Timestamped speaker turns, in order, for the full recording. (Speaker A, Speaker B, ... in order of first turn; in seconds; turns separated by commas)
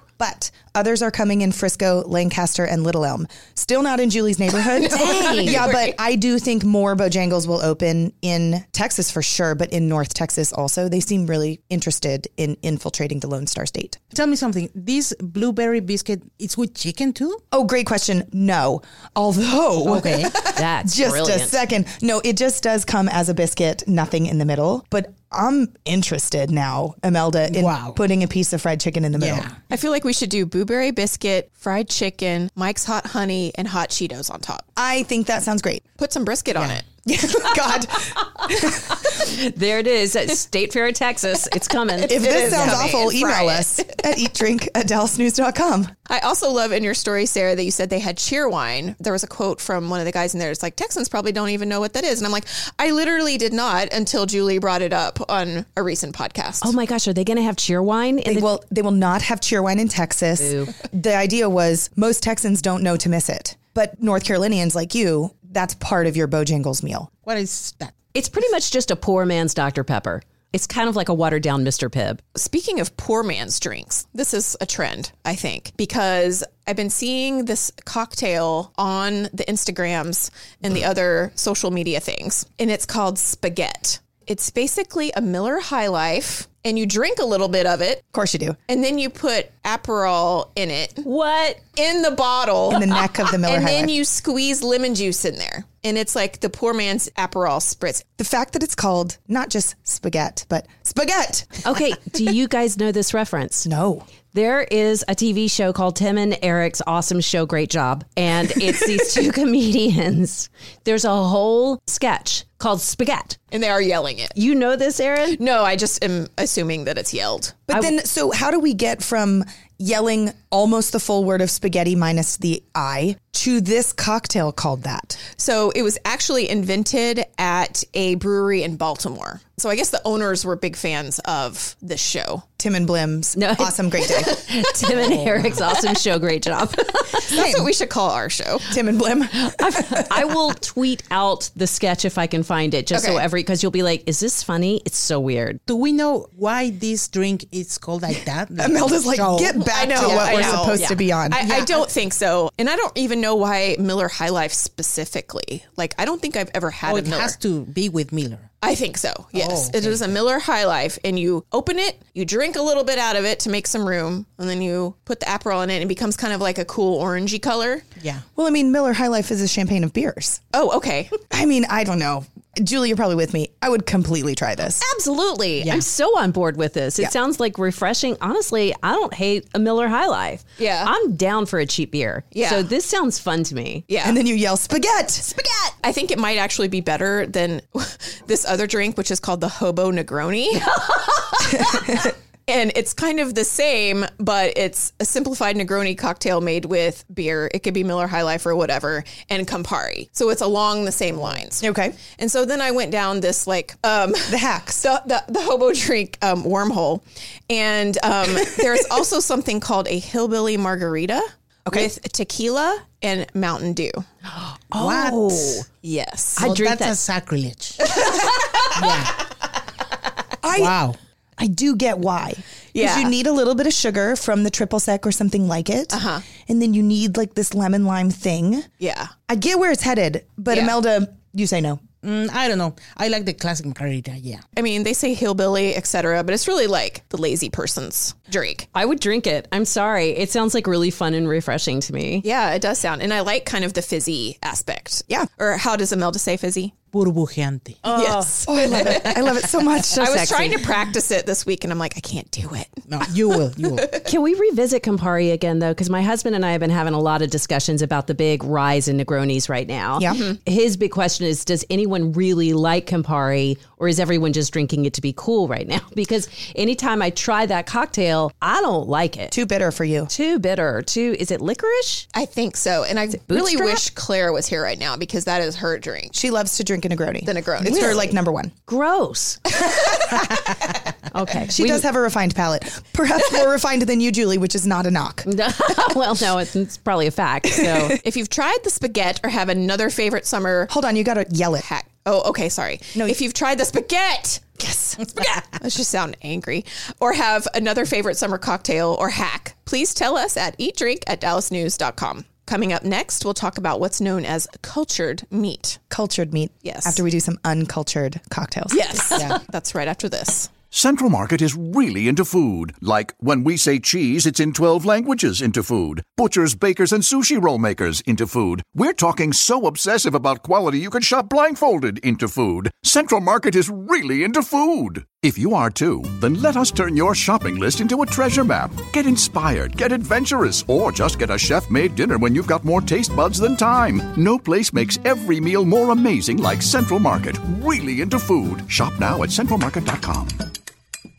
Speaker A: 0.2-14.0, Speaker B: 4.7-6.0, Speaker C: 4.9-5.7, Speaker D: 14.1-17.4, Speaker A: 17.5-29.5, Speaker D: 19.8-20.3, Speaker C: 20.5-21.6, Speaker D: 27.5-28.0, Speaker D: 29.1-29.5, Speaker B: 29.7-34.6, Speaker A: 34.8-35.8, Speaker B: 36.0-36.9, Speaker A: 37.0-39.0, Speaker C: 39.0-42.8, Speaker B: 41.9-44.0, Speaker A: 42.1-45.9, Speaker B: 46.1-56.7, Speaker C: 56.6-58.5, Speaker A: 58.2-67.1, Speaker C: 60.4-60.7, Speaker D: 67.2-67.9, Speaker C: 68.1-72.2, Speaker B: 72.3-88.0, Speaker A: 88.1-88.6, Speaker B: 88.7-91.0, Speaker C: 91.0-91.6, Speaker B: 91.7-98.0, Speaker A: 92.7-93.9, Speaker A: 98.2-101.6, Speaker C: 101.6-103.7, Speaker A: 103.6-104.0, Speaker C: 104.3-113.4, Speaker B: 113.5-114.3, Speaker C: 114.3-115.4, Speaker B: 115.3-117.6, Speaker A: 117.7-125.2, Speaker C: 117.7-117.9, Speaker B: 125.3-132.4, Speaker A: 132.6-134.3, Speaker C: 133.3-137.2, Speaker B: 137.1-138.7, Speaker A: 137.3-137.7, Speaker A: 138.7-140.3, Speaker C: 139.3-145.6, Speaker B: 142.9-143.3, Speaker D: 145.7-150.7, Speaker A: 148.6-151.6, Speaker B: 149.6-157.3, Speaker D: 156.8-158.4, Speaker B: 158.6-167.8, Speaker D: 159.3-160.2, Speaker D: 168.0-168.2, Speaker A: 168.3-170.4, Speaker B: 170.5-171.2, Speaker A: 171.3-174.8, Speaker C: 174.7-183.9, Speaker D: 175.6-175.8, Speaker B: 180.6-180.9, Speaker B: 182.3-182.7, Speaker B: 183.9-184.2, Speaker A: 184.0-185.3, Speaker B: 185.3-214.1, Speaker A: 191.6-192.1, Speaker A: 201.6-202.0, Speaker A: 204.3-204.8, Speaker A: 211.7-211.9, Speaker C: 214.3-215.6, Speaker D: 214.7-215.6, Speaker B: 215.8-216.5, Speaker C: 216.3-217.0, Speaker D: 216.4-217.8, Speaker B: 218.0-218.6, Speaker D: 218.7-219.2, Speaker A: 220.4-220.8, Speaker D: 220.6-221.0, Speaker A: 221.4-228.7, Speaker B: 222.7-223.1, Speaker B: 225.9-226.2, Speaker B: 228.8-229.1, Speaker A: 229.3-231.8, Speaker B: 230.5-230.8, Speaker D: 232.0-234.4, Speaker B: 234.5-238.7, Speaker C: 238.7-242.2, Speaker B: 242.2-246.8, Speaker D: 246.9-247.8, Speaker C: 247.8-248.3, Speaker B: 247.9-249.3, Speaker A: 248.4-250.6, Speaker B: 249.9-254.1, Speaker D: 252.9-253.9, Speaker C: 254.0-269.3, Speaker A: 259.9-260.2, Speaker A: 269.3-270.1, Speaker C: 270.1-272.1, Speaker B: 272.1-276.1, Speaker C: 273.2-273.8, Speaker A: 276.1-278.5, Speaker B: 277.2-278.0, Speaker C: 277.6-279.4, Speaker C: 281.1-281.9, Speaker A: 281.5-285.3, Speaker C: 285.2-288.0, Speaker A: 287.6-287.9, Speaker B: 288.0-290.7, Speaker A: 290.7-291.6, Speaker B: 291.6-305.8, Speaker A: 305.9-309.0, Speaker B: 306.6-307.0, Speaker B: 308.7-310.5, Speaker E: 310.7-340.5